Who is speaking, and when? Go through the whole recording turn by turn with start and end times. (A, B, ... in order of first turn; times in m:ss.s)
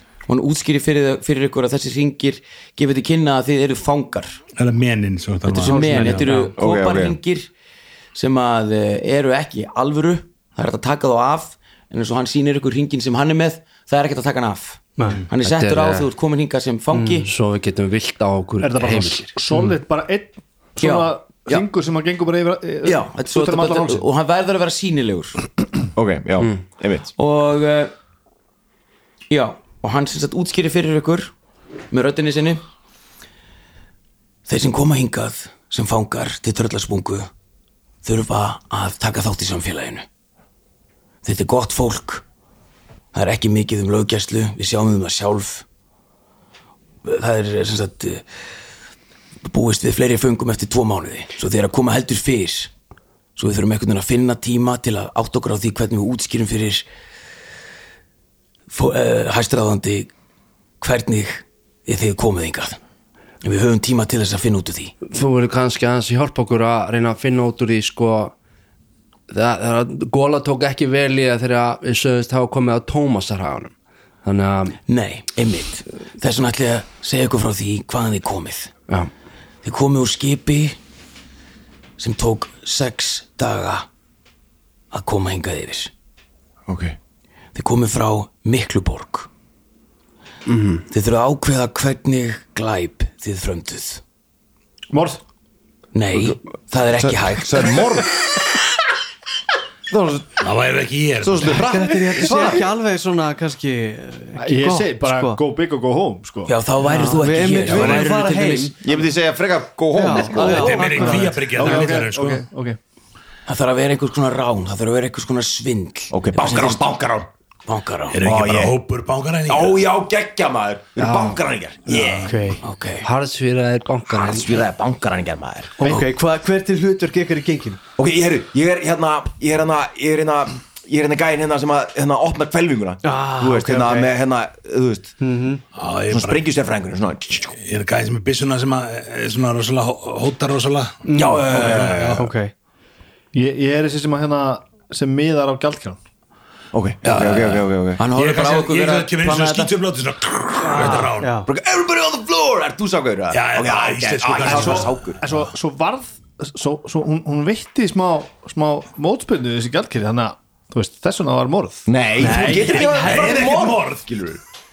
0:00.3-0:04.4 A
0:04.6-0:06.2 B
0:05.5-0:06.5 C
0:05.5-0:07.5 A
0:06.6-0:07.2 D
0:08.1-0:17.3 A
0:15.0-0:15.2 C
0:15.4-0:16.1 E
0:17.2-0:19.3 E
0:18.6-0:24.0 F
0:20.8-0:21.6 A
0:22.8-0:25.4 A
0:25.9-0:27.1 D
0:27.2-0:27.9 A
0:29.3-0:31.3 A
0:31.9-0:32.6 A
0:34.5-0:37.3 A
0:38.0-0:40.0 A
0:41.2-0:42.2 A
0:43.1-0:45.6 A
0:47.0-0:48.2 A
0:49.4-0:52.7 A
0:53.4-0:56.9 A
0:58.7-1:00.1 A
1:00.8-1:02.8 A
1:03.4-1:04.9 A
1:05.1-1:08.3 E
1:09.3-1:13.7 E
1:14.2-1:14.8 E
1:14.9-1:18.7 A
1:19.6-1:20.8 A
1:22.0-1:23.8 A
1:24.9-1:25.9 A
1:26.7-1:27.0 D
1:27.5-1:29.3 A
1:30.5-1:30.8 E
1:30.9-1:34.0 A
1:34.9-1:35.2 F
1:35.9-1:37.8 A
1:37.0-1:38.3 D
1:39.9-1:40.4 D
1:40.4-1:41.6 B
1:41.2-1:42.7 D
1:41.6-1:45.4 C
1:44.4-1:46.5 F
1:46.5-1:48.7 A
1:46.8-1:48.8 C
1:48.8-1:51.3 D
1:49.9-1:51.7 C
1:50.4-1:52.4 B
1:51.5-1:52.8 F
1:53.4-1:56.8 A
1:56.1-1:57.3 D
1:57.7-1:58.2 A
1:58.1-1:59.8 B
1:58.2-1:58.8 D
1:59.5-2:02.3 D
2:01.0-2:01.4 E
2:01.9-2:02.3 B
2:02.3-2:02.6 C
2:02.6-2:03.1 A
2:03.0-2:04.5 E
2:04.1-2:06.0 D
2:05.8-2:07.8 C
2:08.0-2:15.2 D
2:13.0-2:14.1 C
2:15.2-2:15.6 C
2:15.8-2:16.4 B
2:16.1-2:17.6 D
2:17.6-2:22.3 B
2:21.0-2:22.5 C
2:21.1-2:22.2 D
2:23.3-2:26.0 F
2:26.7-2:28.0 D
2:27.0-2:31.3 B
2:28.0-2:29.7 A
2:30.6-2:31.5 C
2:31.4-2:35.2 D
2:33.3-2:35.0 B
2:34.8-2:41.9 F
2:41.9-2:44.4 D
2:42.2-2:43.6 C
2:42.2-2:44.1 B